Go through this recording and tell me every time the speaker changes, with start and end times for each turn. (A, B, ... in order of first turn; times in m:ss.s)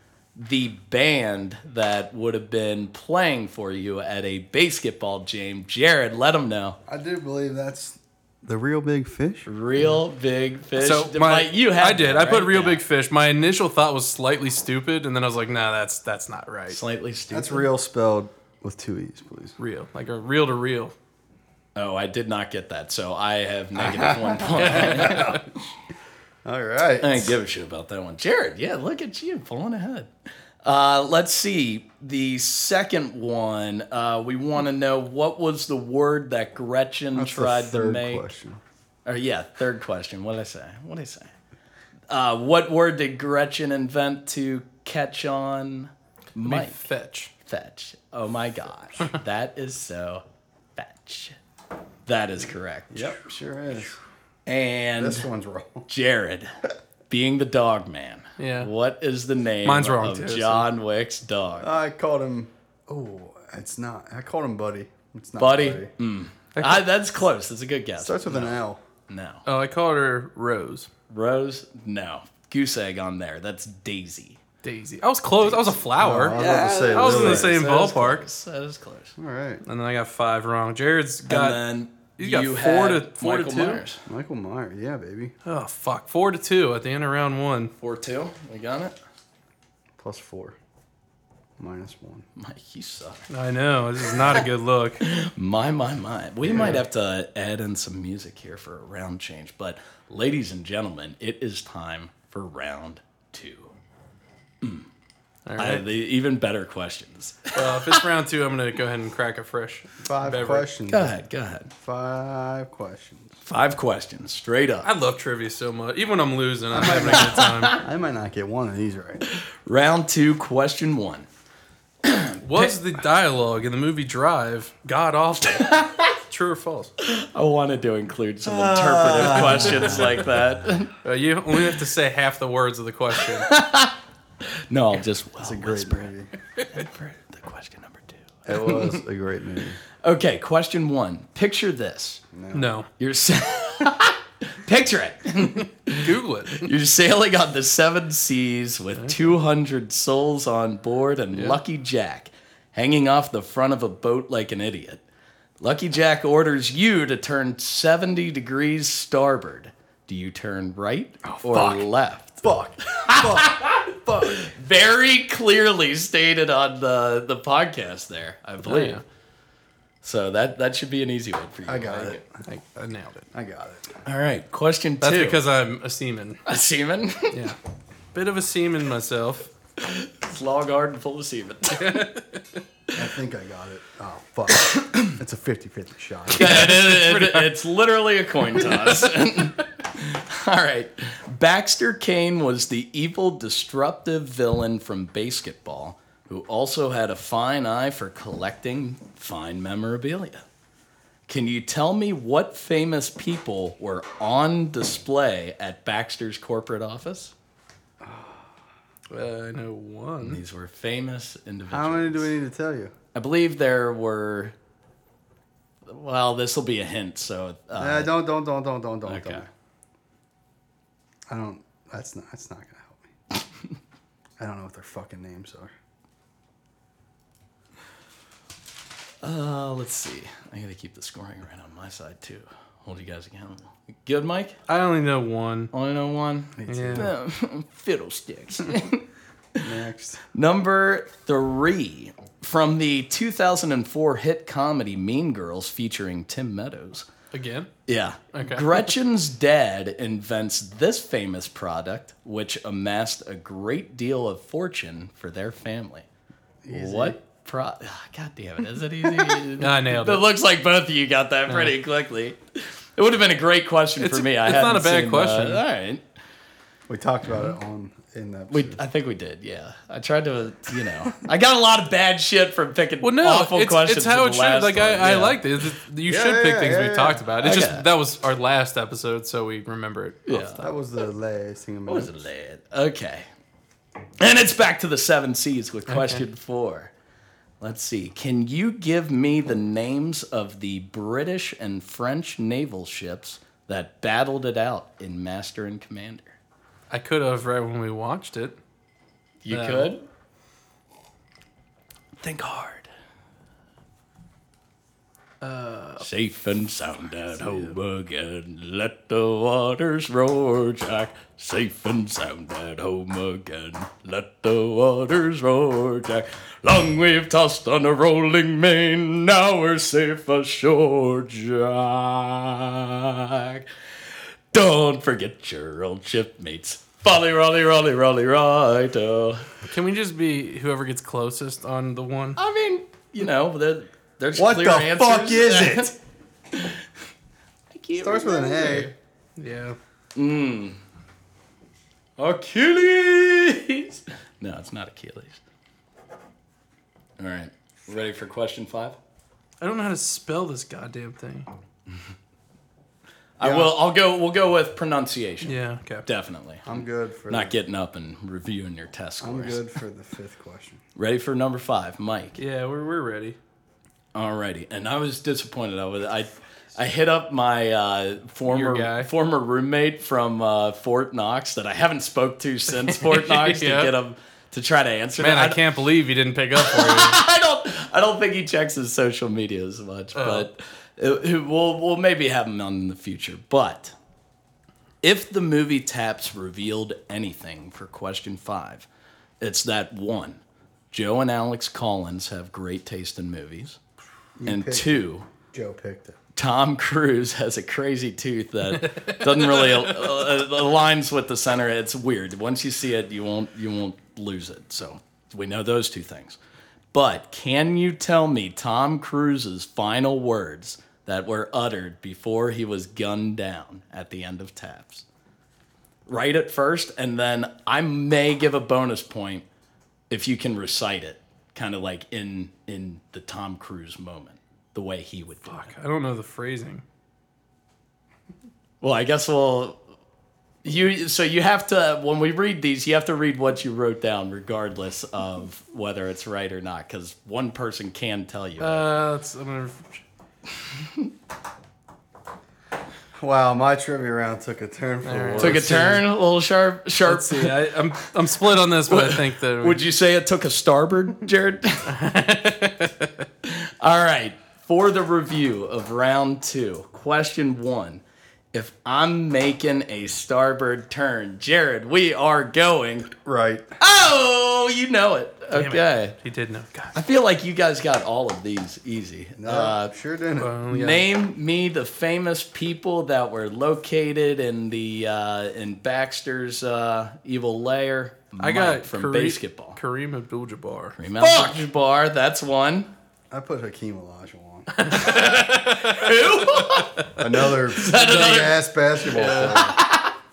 0:00.4-0:06.8 A
0:06.9-0:09.5 B
0:09.4-0:12.8 A
0:10.8-0:16.8 C
0:16.7-0:17.7 A
0:17.3-0:19.6 B
0:19.6-0:20.9 C
0:21.8-0:25.4 A
0:23.8-0:25.4 B
0:24.6-0:25.4 C
0:26.4-0:27.4 B
0:27.0-0:30.1 A
0:30.6-0:38.3 A
0:37.2-0:38.6 B
0:39.1-0:41.3 A
0:42.1-0:46.8 A
0:46.4-0:47.3 C
0:47.5-0:50.2 A
0:50.8-0:51.4 A
0:52.1-0:53.2 A
0:52.9-0:54.0 B
0:54.5-0:55.3 A
0:55.0-0:55.9 B
0:55.9-0:56.5 A
0:57.1-1:01.7 A
0:58.4-0:58.7 C
0:59.6-1:00.7 C
1:01.6-1:05.9 B
1:05.4-1:09.4 A
1:06.6-1:06.8 C
1:08.0-1:08.8 B
1:09.5-1:10.9 C
1:11.1-1:14.4 A
1:14.6-1:18.2 C
1:15.9-1:17.6 B
1:16.3-1:19.2 A
1:19.2-1:19.6 B
1:19.7-1:23.8 C
1:21.3-1:24.0 A
1:24.1-1:25.3 B
1:25.5-1:27.7 C
1:27.8-1:29.0 A
1:30.0-1:30.6 B
1:31.6-1:32.3 B
1:32.4-1:33.2 A
1:33.3-1:35.0 C
1:35.0-1:43.7 A
1:44.6-1:44.9 A
1:45.5-1:45.8 C
1:45.6-1:48.0 A
1:47.6-1:50.7 C
1:50.0-1:51.2 B
1:50.9-1:51.7 A
1:51.8-1:53.4 B
1:53.4-1:54.9 A
1:54.8-1:57.8 C
1:56.7-1:59.2 B
1:57.1-1:57.8 A
1:59.3-2:01.3 A
2:02.0-2:02.7 A
2:02.4-2:06.9 C
2:05.6-2:06.2 A
2:07.0-2:10.9 A
2:08.5-2:10.4 B
2:09.3-2:09.6 C
2:11.0-2:13.5 C
2:13.2-2:14.0 A
2:14.7-2:16.1 A
2:15.4-2:16.3 B
2:16.7-2:19.0 A
2:18.5-2:19.8 B
2:20.0-2:22.2 A
2:22.3-2:22.8 B
2:22.5-2:22.9 C
2:23.0-2:35.0 A
2:25.9-2:26.7 C
2:31.3-2:31.6 C
2:35.6-2:49.0 A
2:41.3-2:41.7 C
2:42.4-2:44.5 B
2:48.6-2:49.0 C
2:50.0-2:52.2 A
2:51.7-2:52.4 B
2:52.5-2:53.3 C
2:53.3-2:53.9 B
2:54.0-2:55.4 A
2:55.0-2:56.4 C
2:56.5-2:57.4 A
2:57.3-2:57.6 C
2:58.1-2:59.5 C
2:59.8-3:02.1 A
3:01.8-3:02.5 C
3:02.9-3:06.7 B
3:04.8-3:05.1 A
3:06.3-3:20.4 A
3:06.4-3:07.6 C
3:08.5-3:09.1 C
3:21.3-3:27.3 A
3:28.0-3:28.5 B
3:29.1-3:30.4 C
3:30.2-3:32.3 A
3:31.7-3:32.9 B
3:33.1-3:34.6 A
3:35.9-3:38.2 A
3:37.8-3:39.5 B
3:39.1-3:39.5 A
3:41.3-3:43.1 B
3:44.4-3:45.7 B
3:49.2-3:54.6 A
3:54.7-3:55.7 C
3:55.7-3:59.7 A
3:56.6-3:57.1 B
3:56.7-3:57.1 C
3:59.6-4:00.2 B
4:00.3-4:07.1 A
4:07.3-4:07.7 C
4:07.9-4:16.1 A
4:08.3-4:08.9 C
4:16.6-4:17.2 B
4:16.7-4:26.0 A
4:19.6-4:20.3 C
4:24.0-4:25.6 C
4:26.9-4:28.8 B
4:28.5-4:35.4 A
4:33.0-4:40.7 C
4:36.1-4:37.3 B
4:37.4-4:37.9 A
4:40.3-4:40.6 A
4:40.6-4:42.3 B
4:41.9-4:43.3 A
4:44.2-4:46.9 A
4:45.9-4:46.2 C
4:47.6-4:56.4 A
4:56.9-4:58.6 C
4:59.4-5:00.0 A
4:59.5-4:59.9 C
5:02.2-5:02.9 A
5:05.4-5:06.1 C
5:06.0-5:23.7 A
5:07.3-5:07.8 C
5:24.5-5:29.5 A
5:29.7-5:32.4 C
5:32.4-5:35.9 A
5:34.4-5:36.0 B
5:37.7-5:38.9 A
5:38.0-5:38.9 B
5:39.4-5:39.8 C
5:40.2-5:40.8 A
5:42.2-5:45.4 A
5:47.2-5:49.0 A
5:49.6-5:51.5 C
5:53.4-5:59.6 A
5:53.4-5:53.7 B
5:55.4-5:56.1 C
5:56.6-5:57.6 B
5:59.2-6:00.8 B
6:01.0-6:02.4 A
6:02.4-6:03.4 C
6:04.1-6:15.6 A
6:08.5-6:09.1 C
6:12.7-6:13.9 C
6:15.2-6:17.2 C
6:16.6-6:24.0 A
6:20.2-6:20.5 C
6:25.0-6:28.9 A
6:29.4-6:33.8 A
6:34.4-6:36.2 B
6:34.4-6:35.3 A
6:36.4-6:46.4 A
6:38.8-6:40.1 C
6:46.9-6:55.0 A
6:56.1-6:59.5 A
7:00.1-7:05.7 A
7:05.5-7:06.8 C
7:08.8-7:09.8 A
7:10.6-7:18.9 A
7:18.6-7:20.0 C
7:23.2-7:26.0 B
7:25.0-7:26.0 C
7:25.4-7:27.8 A
7:27.0-7:29.8 C
7:28.9-7:31.9 A
7:31.9-7:33.3 C
7:33.4-7:43.1 A
7:43.2-7:43.7 B
7:43.8-7:46.2 A
7:45.5-7:47.0 C
7:46.9-7:50.0 A
7:49.4-7:50.6 B
7:50.4-7:51.1 C
7:50.7-7:59.8 A
7:58.4-8:01.6 C
8:01.0-8:02.9 A
8:03.3-8:04.8 B
8:04.7-8:07.0 C
8:04.9-8:10.1 A
8:07.2-8:09.8 B
8:09.1-8:09.7 C